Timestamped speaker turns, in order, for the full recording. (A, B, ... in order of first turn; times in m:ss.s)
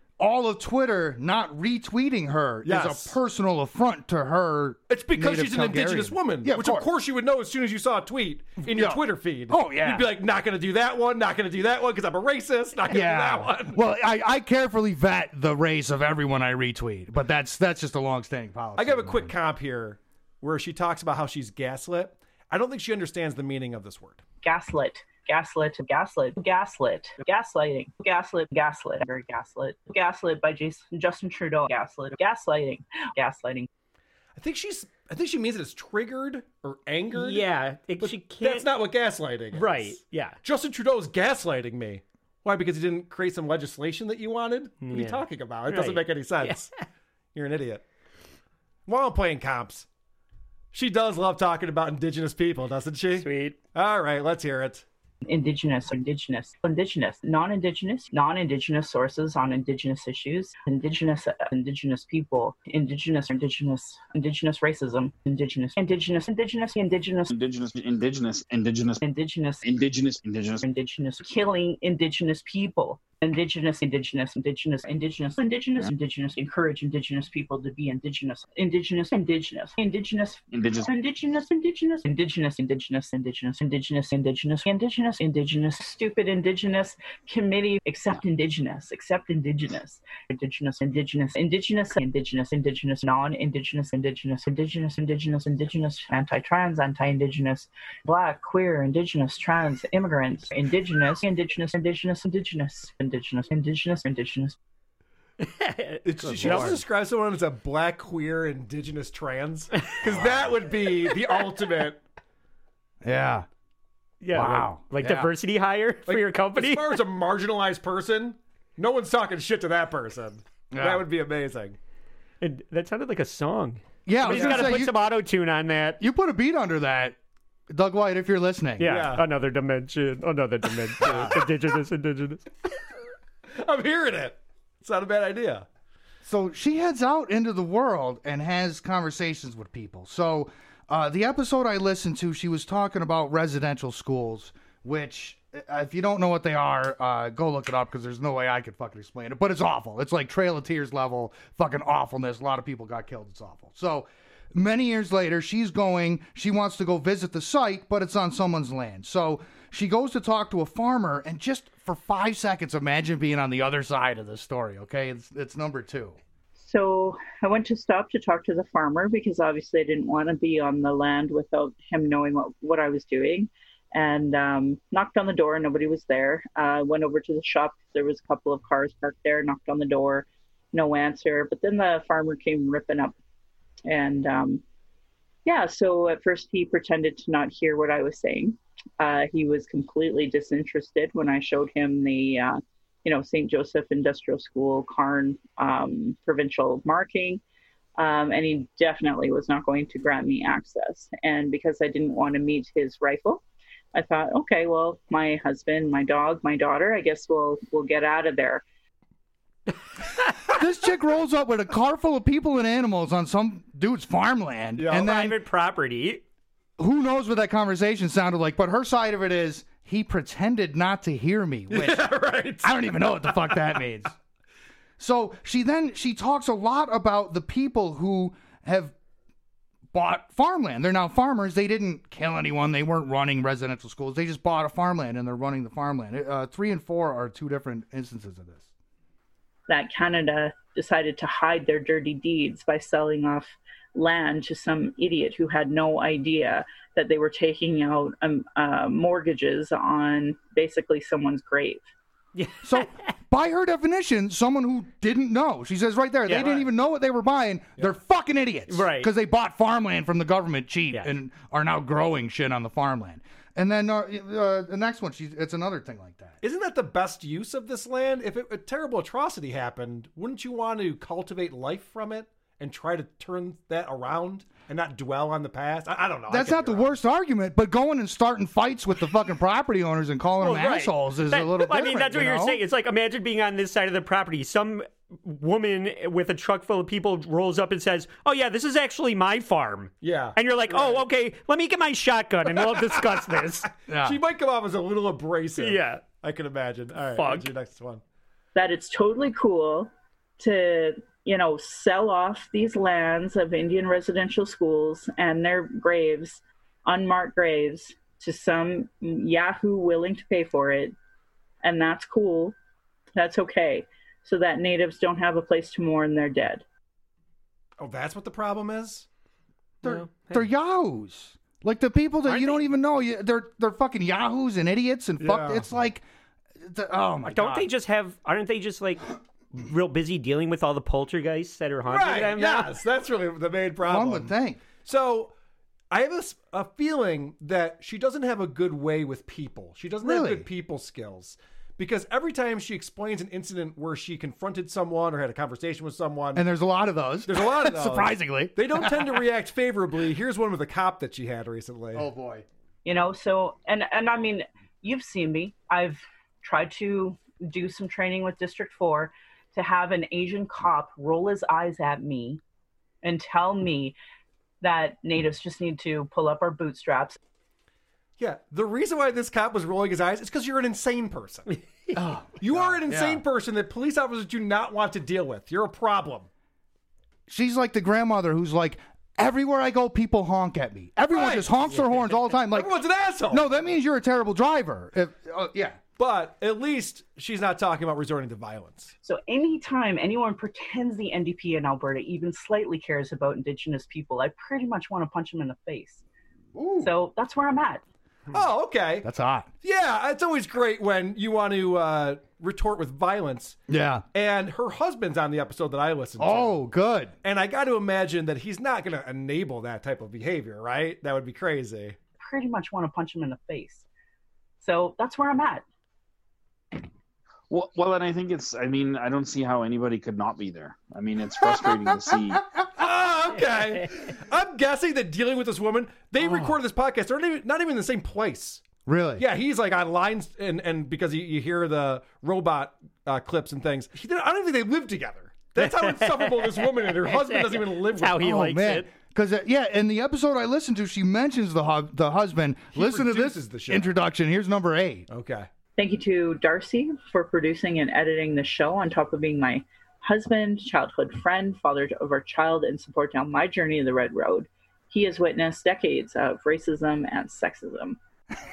0:00.2-0:06.9 A
0:02.6-0:03.2 B
0:04.9-0:13.8 B
0:08.6-0:10.1 A
0:12.9-0:19.3 A
0:18.8-0:24.2 B
0:24.4-0:33.7 C
0:34.4-0:37.4 B
0:37.1-0:38.7 D
0:38.0-0:46.7 B
0:39.5-0:40.4 D
0:44.8-0:46.7 D
0:47.3-0:47.8 B
0:48.9-0:49.9 B
0:50.7-0:54.8 B
0:53.2-0:53.6 D
0:55.3-1:07.3 C
1:07.3-1:09.0 E
1:09.0-1:09.6 C
1:09.6-1:10.6 E
1:10.6-1:44.6 C
1:20.5-1:20.9 E
1:45.4-1:46.8 D
1:46.0-1:52.0 B
1:46.2-1:46.8 A
1:53.0-1:53.5 A
1:54.2-1:57.0 D
1:54.3-1:55.3 A
1:56.1-2:01.8 B
2:00.7-2:01.0 A
2:02.4-2:06.0 D
2:04.1-2:05.0 A
2:04.3-2:04.8 B
2:06.0-2:07.2 A
2:07.7-2:08.9 A
2:08.8-2:12.4 D
2:08.8-2:09.2 B
2:11.0-2:11.3 B
2:13.5-2:15.7 B
2:16.2-2:46.2 A
2:46.6-3:03.2 C
3:03.9-3:04.6 C
3:05.5-3:17.4 C
3:18.0-3:23.4 C
3:23.9-3:28.6 C
3:30.5-3:35.4 A
3:34.8-3:35.1 B
3:34.9-3:36.2 D
3:36.8-3:42.1 A
3:41.7-3:43.6 B
3:42.6-3:44.1 A
3:45.0-3:48.9 A
3:49.9-3:58.7 A
3:59.7-4:11.8 C
4:12.4-4:13.1 D
4:12.6-4:26.4 A
4:16.3-4:16.5 D
4:16.4-4:16.7 B
4:18.7-4:19.1 D
4:26.4-4:36.9 B
4:36.3-4:42.6 A
4:40.4-4:53.7 D
4:50.0-4:51.0 B
4:52.5-4:53.4 B
4:53.9-4:54.2 A
4:54.0-4:58.0 B
4:55.6-4:56.0 D
4:57.1-4:57.5 D
4:58.6-5:11.0 C
5:11.6-5:12.6 C
5:13.2-5:16.6 C
5:17.8-5:19.1 B
5:19.8-5:20.5 D
5:19.8-5:26.0 A
5:22.3-5:22.6 D
5:25.2-5:25.7 B
5:26.6-5:27.7 A
5:27.2-5:32.8 D
5:31.9-5:34.3 B
5:33.8-5:34.6 A
5:34.8-5:35.3 B
5:35.9-5:46.4 B
5:40.0-5:40.5 A
5:46.4-5:49.2 A
5:47.3-5:52.1 B
5:51.9-5:52.4 A
5:52.8-6:02.4 C
6:03.0-6:04.0 C
6:04.6-6:07.2 C
6:08.2-6:11.5 B
6:11.5-6:12.0 D
6:12.0-6:13.2 A
6:12.4-6:16.3 B
6:17.3-6:22.7 A
6:21.1-6:23.5 B
6:23.3-6:25.8 A
6:26.0-6:28.9 B
6:29.0-6:36.0 C
6:36.6-6:36.9 A
6:36.8-6:37.8 C
6:38.3-6:39.1 B
6:39.0-6:39.5 A
6:39.6-6:43.6 B
6:43.7-6:44.0 A
6:44.1-6:46.6 B
6:46.2-6:47.1 A
6:47.2-6:52.0 B
6:52.2-6:53.8 C
6:54.6-6:55.6 C
6:57.5-7:02.4 E
7:01.4-7:02.4 A
7:02.8-7:08.6 B
7:06.2-7:06.5 A
7:08.9-7:09.2 A
7:09.2-7:18.2 B
7:15.6-7:18.9 D
7:18.2-7:25.1 A
7:22.7-7:23.9 B
7:25.1-7:25.5 B
7:25.8-7:38.0 C